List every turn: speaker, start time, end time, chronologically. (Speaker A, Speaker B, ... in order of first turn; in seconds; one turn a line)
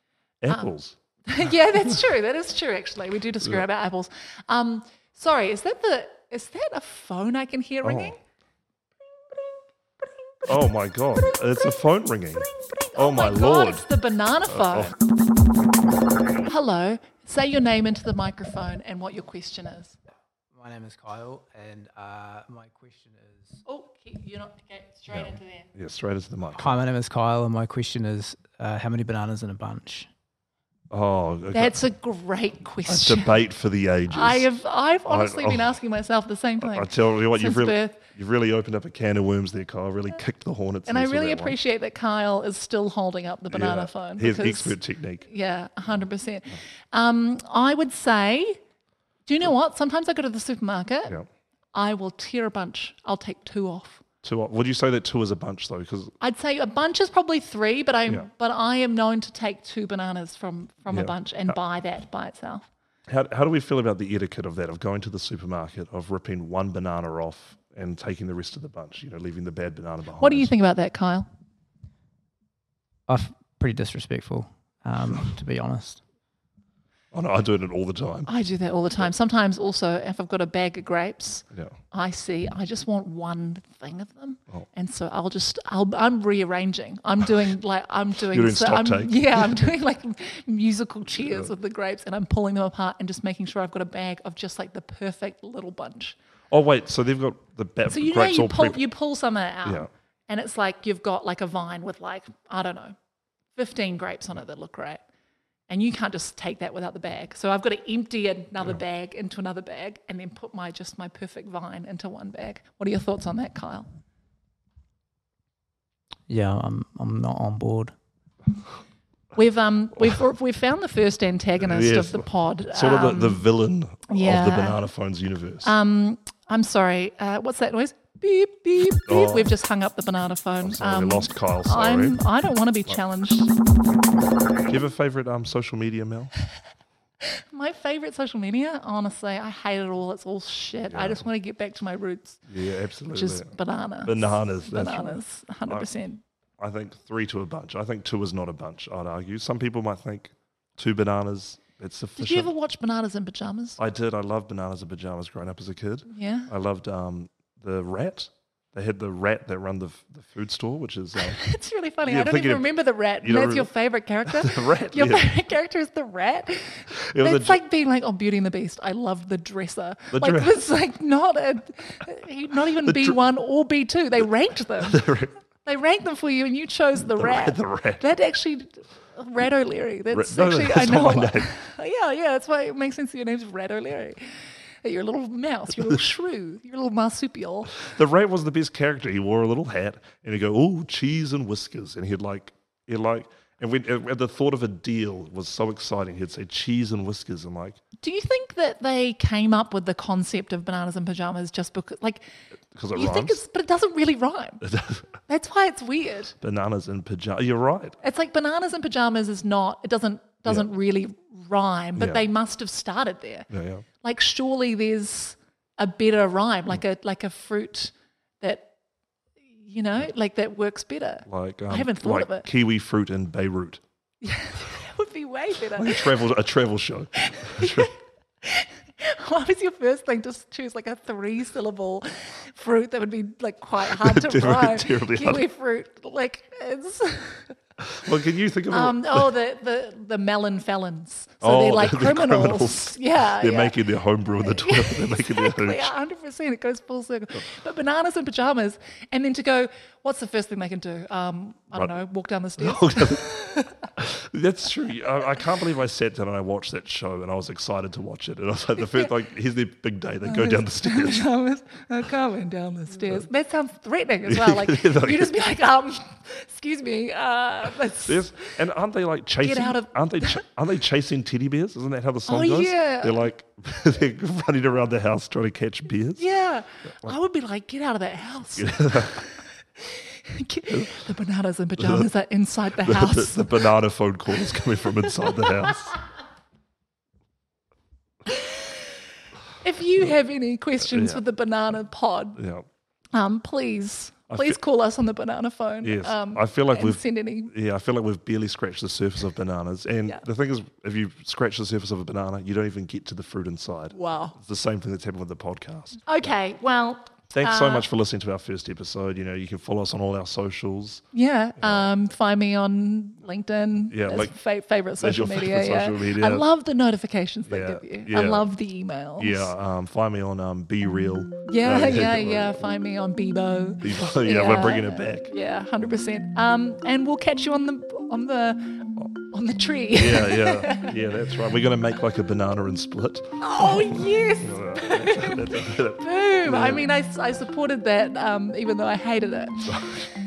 Speaker A: 0.4-1.0
Speaker B: 1.2-8.2
Speaker A: 7.8-8.1
Speaker B: 9.1-15.0
Speaker A: 10.4-13.8
Speaker A: 14.5-14.9
Speaker B: 16.4-20.0
Speaker C: 20.5-23.6
Speaker B: 23.6-25.7
Speaker A: 25.1-26.7
Speaker C: 26.6-30.1
Speaker A: 30.9-31.8
Speaker B: 31.5-33.4
Speaker A: 32.9-34.4
Speaker B: 34.1-38.0
Speaker A: 35.1-35.7
Speaker A: 36.6-41.6
Speaker B: 40.9-48.6
Speaker A: 43.5-45.3
Speaker B: 49.2-51.2
Speaker B: 51.7-54.0
Speaker A: 54.2-56.1
Speaker B: 56.2-62.7
Speaker A: 60.9-61.6
Speaker A: 63.1-70.5
Speaker B: 70.2-71.3
Speaker C: 73.1-76.0
Speaker A: 77.1-78.3
Speaker B: 78.3-96.2
Speaker A: 88.3-89.6
Speaker A: 91.2-91.5
Speaker A: 96.5-98.8
Speaker B: 97.9-102.9
Speaker B: 103.5-105.0
Speaker B: 105.7-113.9
Speaker C: 116.3-117.9
Speaker B: 119.3-123.4
Speaker A: 121.6-125.7
Speaker B: 124.1-124.8
Speaker B: 125.6-133.5
Speaker A: 129.1-129.5
Speaker A: 130.6-132.2
Speaker A: 134.7-136.3
Speaker B: 137.2-142.4
Speaker A: 140.9-141.2
Speaker A: 142.5-143.5
Speaker B: 143.1-146.2
Speaker A: 144.0-145.9
Speaker A: 146.6-152.5
Speaker B: 152.2-153.8
Speaker A: 153.8-161.4
Speaker B: 156.1-156.5
Speaker B: 161.2-175.1
Speaker A: 162.1-162.7
Speaker A: 163.2-163.7
Speaker A: 164.2-165.3
Speaker A: 166.9-167.6
Speaker A: 170.1-170.6
Speaker A: 172.8-173.2
Speaker A: 174.8-175.3
Speaker B: 175.6-184.3
Speaker A: 177.0-178.0
Speaker A: 180.1-181.5
Speaker B: 184.8-187.9
Speaker A: 187.8-197.8
Speaker B: 198.0-202.3
Speaker A: 202.7-203.4
Speaker B: 202.9-204.7
Speaker A: 204.6-205.1
Speaker B: 205.2-206.3
Speaker A: 206.4-208.0
Speaker B: 208.0-213.5
Speaker A: 211.9-212.2
Speaker A: 213.5-213.8
Speaker B: 214.0-218.7
Speaker B: 219.6-222.5
Speaker A: 221.3-223.8
Speaker B: 224.2-226.2
Speaker A: 225.7-227.9
Speaker B: 227.2-237.6
Speaker A: 233.8-235.5
Speaker A: 237.8-239.3
Speaker B: 238.7-243.8
Speaker A: 241.4-245.9
Speaker B: 244.4-253.9
Speaker A: 252.6-253.3
Speaker A: 253.9-261.3
Speaker B: 260.2-268.5
Speaker A: 264.3-265.3
Speaker A: 268.0-276.2
Speaker B: 269.4-270.4
Speaker B: 272.2-273.2
Speaker B: 276.2-283.7
Speaker A: 278.6-279.2
Speaker A: 280.7-281.0
Speaker A: 281.8-282.1
Speaker A: 282.8-286.0
Speaker B: 284.6-285.8
Speaker B: 288.3-288.7
Speaker B: 289.6-292.4
Speaker A: 290.8-291.2
Speaker A: 292.4-292.6
Speaker B: 293.1-297.5
Speaker A: 294.3-294.6
Speaker A: 295.8-306.0
Speaker B: 303.9-304.4
Speaker B: 306.1-307.9
Speaker A: 307.3-311.0
Speaker B: 311.1-319.5
Speaker A: 311.6-311.9
Speaker A: 313.9-314.3
Speaker A: 315.0-316.4
Speaker A: 317.5-318.5
Speaker A: 319.2-322.6
Speaker B: 321.4-330.9
Speaker A: 323.8-325.3
Speaker A: 329.9-336.9
Speaker B: 333.4-339.9
Speaker A: 339.6-340.1